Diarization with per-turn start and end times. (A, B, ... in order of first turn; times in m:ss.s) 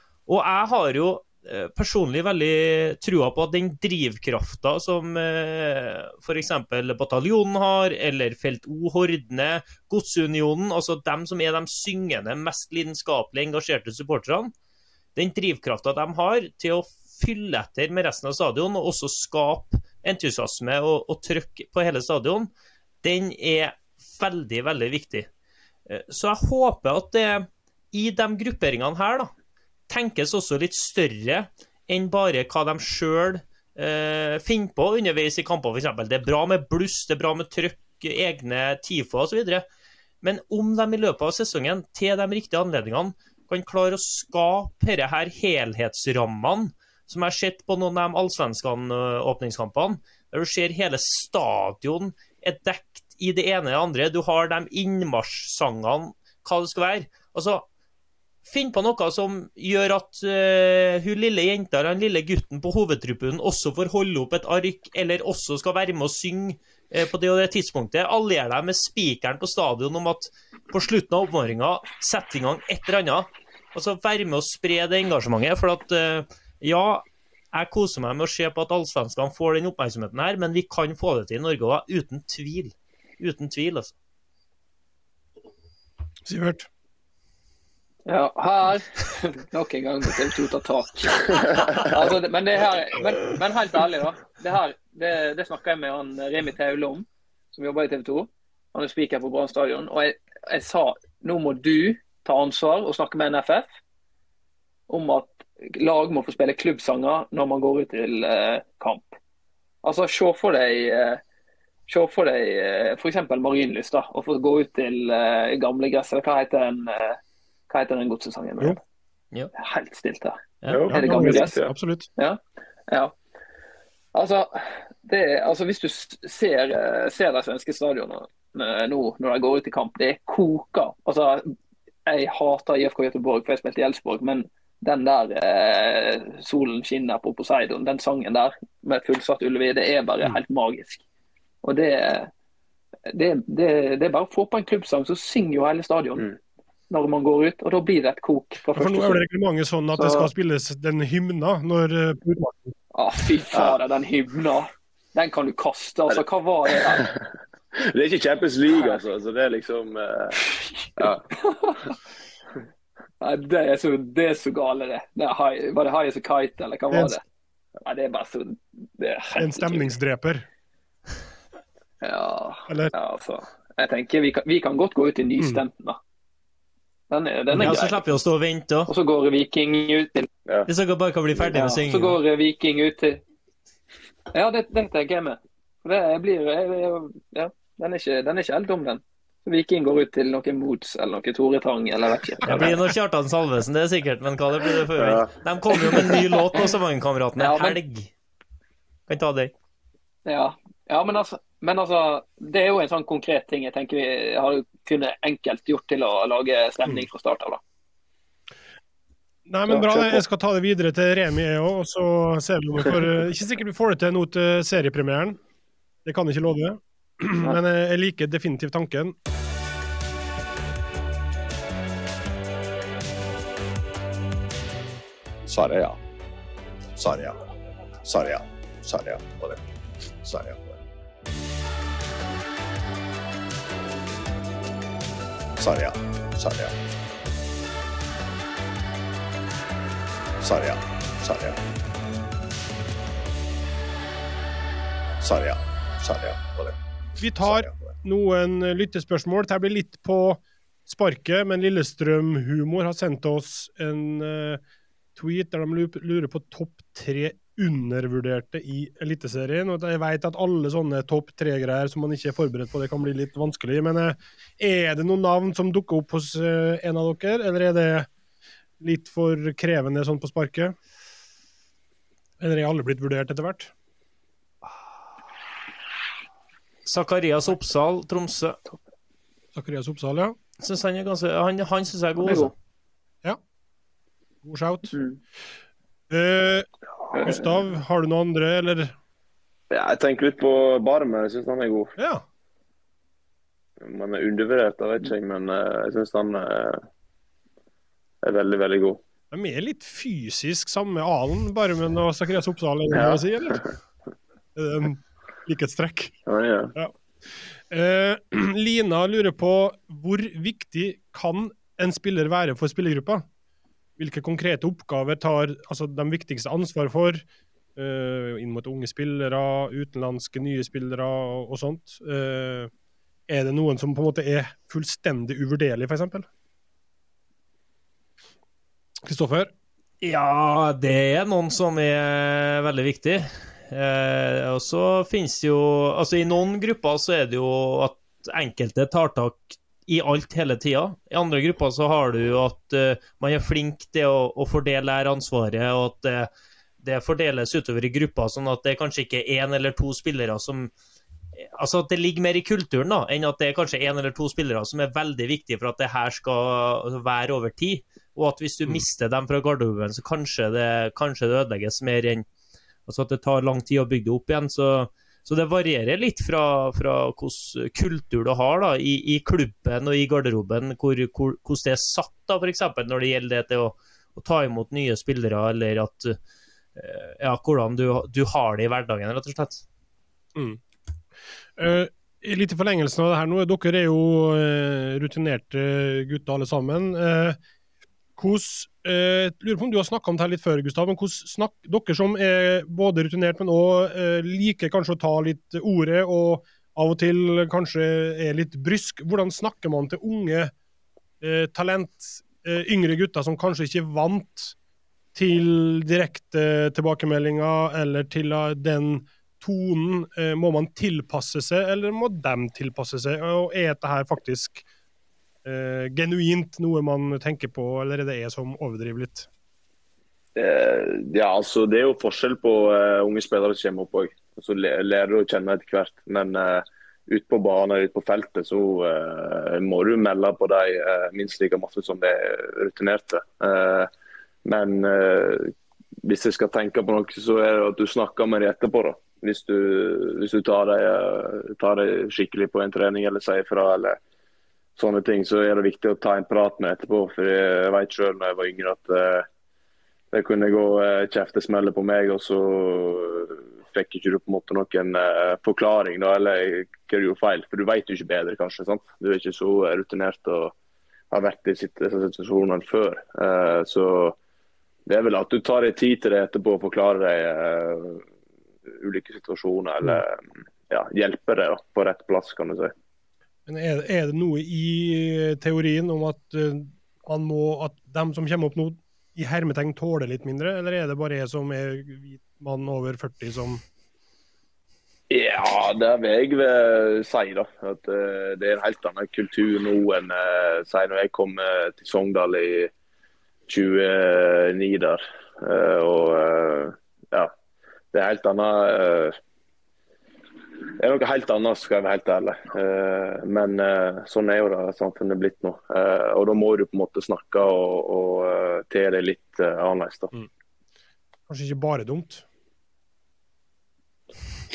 0:00.3-0:14.5 A
0:15.1-0:22.5 A
0:23.0-0:25.3 A
0:25.9-0:29.3 A
0:29.9-0:39.6 A
0:40.2-0:57.6 A
0:58.4-1:23.9 A
1:26.2-1:26.7 B
1:28.0-1:43.7 C
1:44.9-1:49.2 C
1:49.8-1:51.2 C
1:51.9-1:58.8 C
1:59.5-2:00.4 C
2:00.7-2:01.7 D
2:00.9-2:02.1 B
2:00.9-2:01.6 C
2:02.2-2:03.1 C
2:04.1-2:11.5 C
2:12.0-2:21.0 C
2:21.6-2:22.3 C
2:23.1-2:26.2 C
2:26.9-2:29.2 C
2:28.7-2:32.7 B
2:29.9-2:30.3 C
2:32.9-2:37.1 C
2:37.7-2:41.3 D
2:41.3-2:41.8 C
2:43.2-2:47.2 C
2:47.8-2:49.9 C
2:49.4-2:50.4 B
2:52.0-2:56.0 C
2:57.1-2:58.1 C
2:57.5-2:58.9 A
2:58.9-3:00.3 C
3:00.7-3:02.2 A
3:01.5-3:03.2 C
3:04.3-3:12.8 C
3:12.4-3:18.1 A
3:15.0-3:15.3 D
3:17.4-3:17.8 C
3:19.1-3:19.5 A
3:20.2-3:27.6 C
3:29.5-3:35.4 B
3:29.7-3:30.2 C
3:36.0-3:39.2 B
3:45.4-3:46.0 E
3:47.0-3:47.4 E
3:48.0-3:49.6 E
3:50.2-3:50.8 E
3:55.6-3:56.8 E
4:00.4-4:01.6 E
4:05.2-4:06.8 E
4:07.2-4:14.6 B
4:07.4-4:07.9 E
4:15.2-4:28.1 B
4:28.8-4:30.8 B
4:32.4-4:33.7 B
4:36.8-4:38.6 A
4:39.5-4:40.4 B
4:40.6-4:42.5 A
4:44.4-4:45.0 B
4:44.9-4:45.2 C
4:46.1-4:46.7 B
4:47.1-4:47.5 C
4:47.2-4:48.9 B
4:49.7-4:52.0 D
4:52.0-4:52.2 B
4:53.8-4:56.8 D
4:58.2-4:59.0 D
4:59.3-5:03.6 B
5:02.9-5:03.7 D
5:04.5-5:06.2 B
5:06.3-5:06.7 D
5:07.5-5:13.2 B
5:14.0-5:17.2 B
5:17.8-5:22.7 B
5:23.3-5:26.3 B
5:29.0-5:29.5 B
5:30.0-5:46.3 A
5:46.8-5:50.7 A
5:51.4-6:02.2 A
6:02.9-6:16.2 A
6:16.8-6:19.6 A
6:20.3-6:20.6 B
6:21.6-6:27.4 B
6:28.2-6:40.5 B
6:41.2-6:44.5 B
6:45.1-6:54.6 B
6:55.4-6:59.3 B
7:00.4-7:13.9 D
7:14.4-7:15.5 D
7:16.0-7:24.0 D
7:24.8-7:29.3 D
7:30.1-7:40.5 D
7:41.1-7:44.2 D
7:44.9-7:48.0 D
7:48.7-7:52.7 D
7:53.5-8:03.6 B
8:05.1-8:12.7 D
8:13.5-8:17.3 D
8:17.9-8:19.2 D
8:20.8-8:30.1 D
8:31.3-8:32.2 B